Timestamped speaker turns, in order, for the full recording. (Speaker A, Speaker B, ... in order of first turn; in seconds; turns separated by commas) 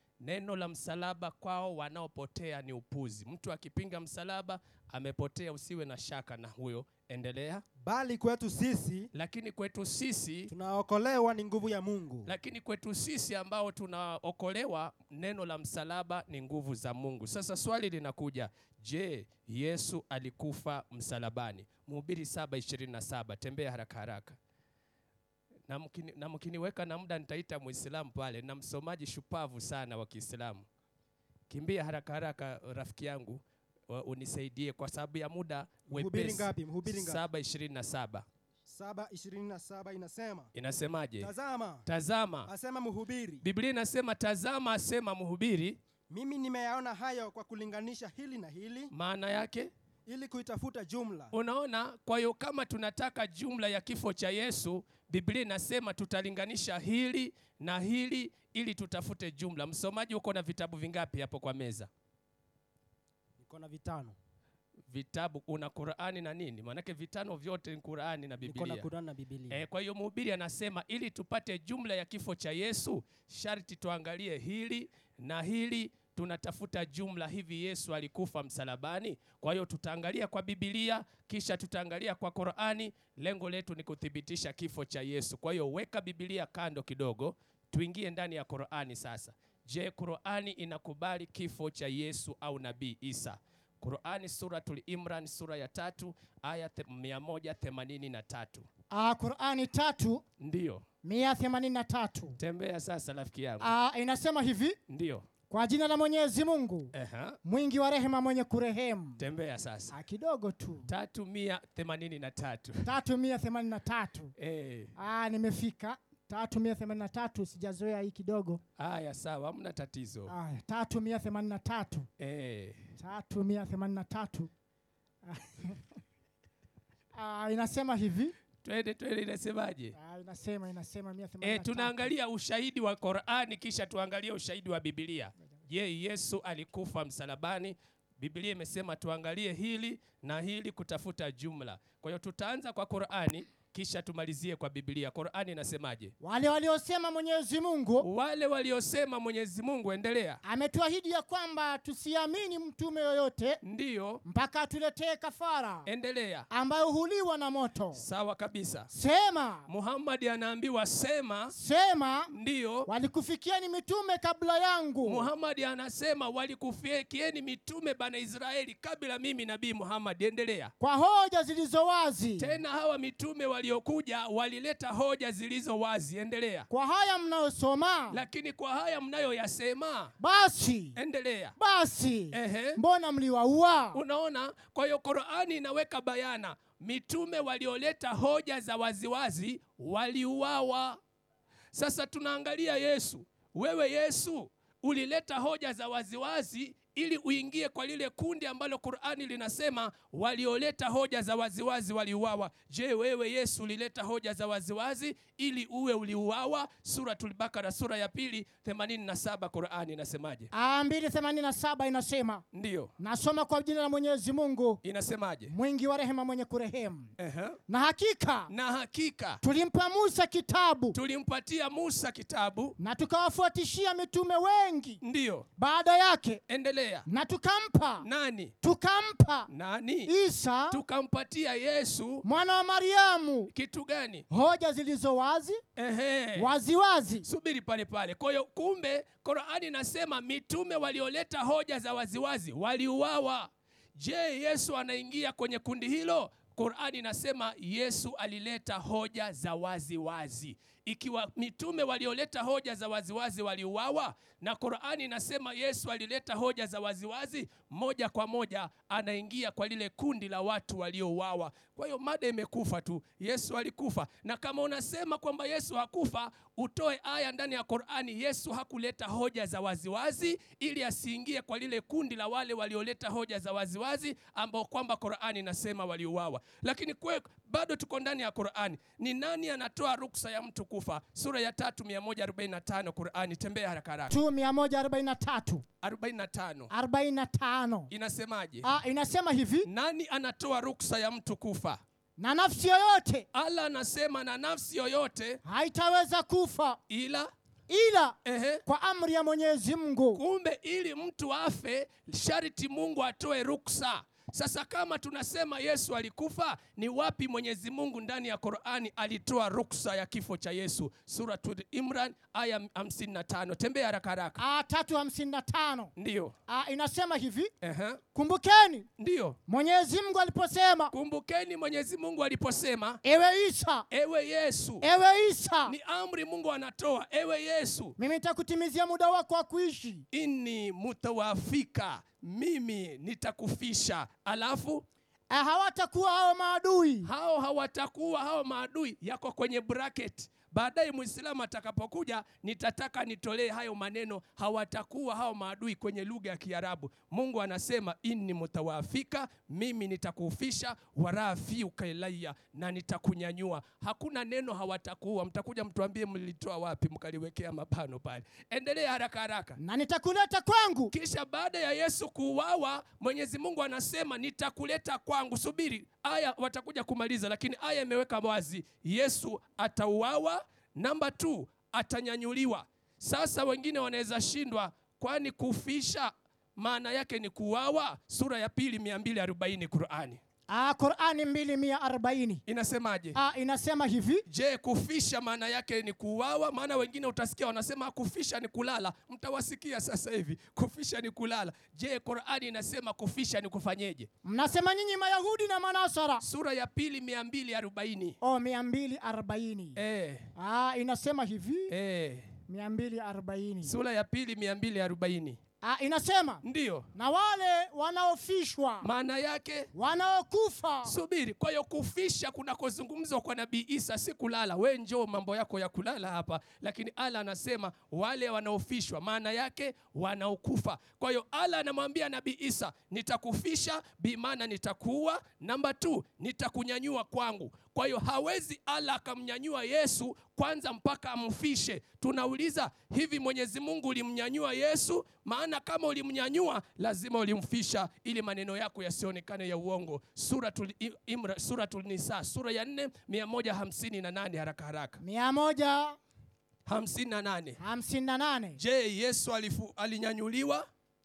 Speaker A: 0.2-7.6, Speaker B: 7.8-9.1, Speaker A: 9.1-10.5, Speaker B: 10.5-12.3, Speaker A: 12.2-24.4, Speaker A: 25.7-30.6, Speaker A: 31.5-38.2, Speaker B: 35.9-37.2, Speaker B: 38.7-40.5, Speaker A: 40.5-41.3, Speaker B: 41.2-41.8, Speaker A: 41.9-42.5, Speaker B: 42.5-43.4, Speaker A: 43.4-45.8, Speaker B: 46.1-48.9, Speaker A: 48.9-49.7, Speaker B: 50.1-51.3, Speaker A: 51.3-61.9, Speaker B: 63.4-64.2, Speaker A: 64.9-68.9, Speaker B: 68.4-69.6, Speaker A: 69.5-98.7, Speaker C: 98.9-100.2, Speaker A: 100.4-100.8, Speaker C: 101.0-102.4, Speaker A: 102.4-103.7, Speaker C: 103.6-104.8, Speaker A: 104.9-105.2, Speaker C: 105.5-106.9, Speaker A: 106.9-107.4, Speaker C: 107.4-109.2, Speaker A: 109.2-109.9, Speaker C: 109.9-110.9, Speaker A: 110.9-112.9, Speaker C: 112.8-114.3, Speaker A: 114.4-114.9, Speaker C: 115.0-118.6, Speaker A: 118.8-120.3, Speaker C: 120.3-122.1, Speaker A: 122.2-122.8, Speaker C: 123.0-124.5, Speaker C: 125.3-125.8, Speaker C: 127.1-128.3, Speaker A: 128.6-129.9, Speaker C: 129.9-132.1, Speaker A: 131.4-146.1, Speaker C: 146.2-148.1, Speaker A: 148.0-150.4, Speaker C: 150.4-153.6, Speaker A: 153.6-154.2, Speaker C: 154.2-155.9, Speaker A: 155.9-156.5, Speaker C: 156.5-158.0, Speaker A: 157.9-158.9, Speaker C: 158.9-159.7, Speaker A: 159.7-161.5, Speaker C: 161.5-162.3, Speaker A: 162.3-162.9, Speaker C: 162.8-165.3, Speaker A: 165.0-170.7, Speaker C: 170.8-172.6, Speaker A: 172.4-176.7, Speaker C: 176.7-178.2, Speaker A: 178.1-180.1, Speaker C: 180.2-181.0, Speaker A: 180.9-181.5, Speaker C: 181.6-184.0, Speaker A: 182.3-182.8, Speaker A: 183.9-191.0, Speaker A: 191.7-210.5, Speaker C: 210.5-212.4, Speaker A: 212.5-212.9, Speaker C: 213.0-214.8, Speaker A: 214.8-215.5, Speaker C: 215.5-217.1, Speaker A: 217.2-217.6, Speaker C: 217.7-218.5, Speaker A: 218.5-219.4, Speaker C: 219.4-221.0, Speaker A: 220.9-222.8, Speaker C: 222.8-225.0, Speaker A: 225.0-225.5, Speaker C: 225.6-226.4, Speaker A: 226.5-227.1, Speaker C: 227.1-228.1, Speaker A: 228.0-228.5, Speaker C: 228.6-229.5, Speaker A: 229.5-230.1, Speaker C: 230.1-230.8, Speaker A: 230.7-232.2, Speaker C: 232.2-233.5, Speaker A: 233.5-234.2, Speaker C: 234.3-235.6, Speaker A: 235.8-236.5, Speaker C: 236.4-237.2, Speaker A: 237.2-284.2, Speaker C: 284.1-285.6, Speaker A: 285.8-286.7, Speaker C: 286.7-287.9, Speaker A: 287.9-288.7, Speaker C: 288.6-289.7, Speaker A: 289.6-291.8, Speaker C: 292.2-293.2, Speaker A: 293.3-295.4, Speaker C: 295.4-296.8, Speaker A: 296.9-297.3, Speaker C: 297.7-300.2, Speaker A: 298.2-298.6, Speaker A: 300.1-314.4, Speaker C: 314.4-315.9, Speaker A: 316.0-316.3, Speaker C: 316.5-317.5, Speaker A: 317.6-318.0, Speaker C: 318.1-318.9, Speaker A: 319.0-319.4, Speaker C: 319.5-320.9, Speaker A: 320.9-323.0, Speaker C: 323.0-323.9, Speaker A: 323.9-324.8, Speaker C: 324.8-325.7, Speaker A: 325.6-327.9, Speaker C: 328.0-330.0, Speaker A: 330.1-334.8, Speaker C: 335.3-337.1, Speaker A: 337.0-359.6, Speaker C: 359.6-360.9, Speaker A: 360.9-380.2, Speaker C: 380.5-382.4, Speaker A: 382.5-383.2, Speaker C: 383.1-384.2, Speaker A: 384.3-394.1, Speaker C: 394.2-396.2, Speaker A: 396.2-398.2, Speaker C: 398.2-399.8, Speaker A: 399.8-400.3, Speaker C: 400.4-401.7, Speaker A: 401.7-402.3, Speaker C: 402.5-403.7, Speaker A: 403.6-405.4, Speaker C: 405.6-406.4, Speaker A: 406.4-406.9, Speaker C: 406.9-408.9, Speaker A: 408.8-409.7, Speaker C: 409.7-410.9, Speaker A: 410.8-445.0, Speaker C: 445.0-446.0, Speaker A: 446.6-447.6, Speaker C: 447.6-448.6, Speaker A: 448.6-450.6